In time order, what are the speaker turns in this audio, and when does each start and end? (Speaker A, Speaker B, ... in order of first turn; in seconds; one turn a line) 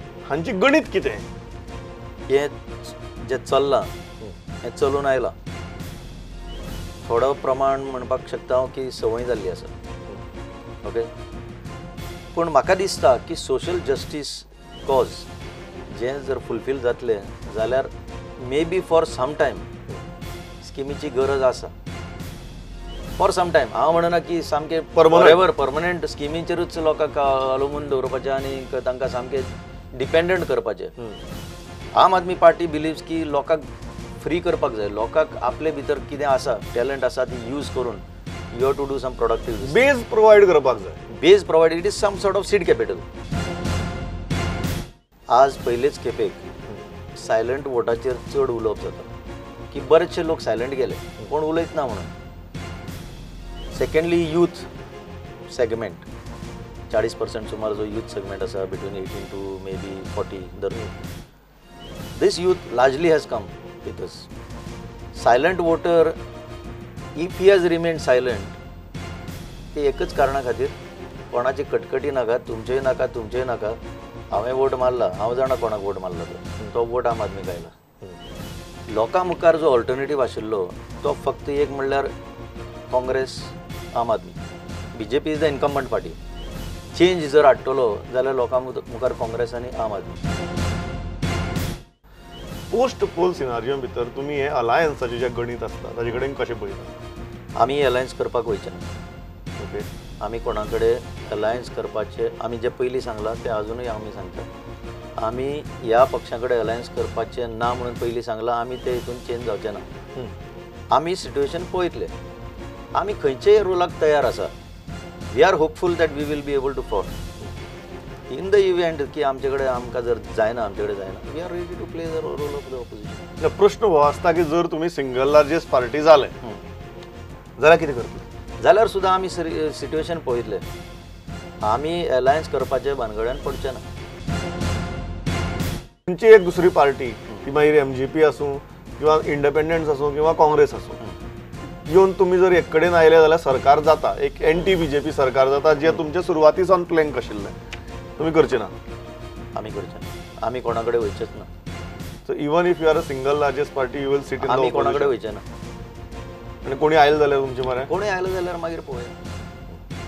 Speaker A: 0.3-1.2
Speaker B: 2.3-3.9
Speaker B: 4.6-5.3
Speaker B: 7.0-9.7
Speaker B: 10.8-11.1
Speaker B: 12.3-15.3
Speaker B: 15.9-19.7
Speaker B: 20.6-21.7
Speaker B: 23.2-30.9
Speaker A: 24.9-25.4
Speaker B: 32.0-33.7
Speaker B: 34.2-39.8
Speaker A: 39.6-41.0
Speaker B: 41.1-43.0
Speaker B: 45.3-46.4
Speaker B: 47.2-49.1
Speaker B: 49.7-52.1
Speaker B: 53.7-54.7
Speaker B: 55.5-56.1
Speaker B: 56.9-60.9
Speaker B: 62.2-64.3
Speaker B: 65.1-66.2
Speaker B: 67.2-68.6
Speaker B: 69.7-70.8
Speaker B: 71.3-73.8
Speaker B: 74.3-77.7
Speaker B: 78.9-82.1
Speaker B: 82.9-84.4
Speaker B: 84.9-86.2
Speaker B: 86.9-90.2
Speaker A: 92.7-96.9
Speaker B: 97.6-98.8
Speaker A: 99.6-99.9
Speaker B: 100.2-104.5
Speaker B: 105.2-109.8
Speaker B: 110.9-112.1
Speaker B: 112.9-114.5
Speaker B: 115.3-117.1
Speaker B: 118.3-123.2
Speaker A: 123.4-126.3
Speaker A: 127.6-128.2
Speaker B: 128.6-130.7
Speaker B: 131.6-133.8
Speaker A: 136.1-141.0
Speaker A: 141.9-147.6
Speaker A: 148.2-148.8
Speaker B: 149.6-151.5
Speaker A: 152.2-155.2
Speaker B: 154.4-155.4
Speaker A: 156.7-157.9
Speaker B: 157.9-159.1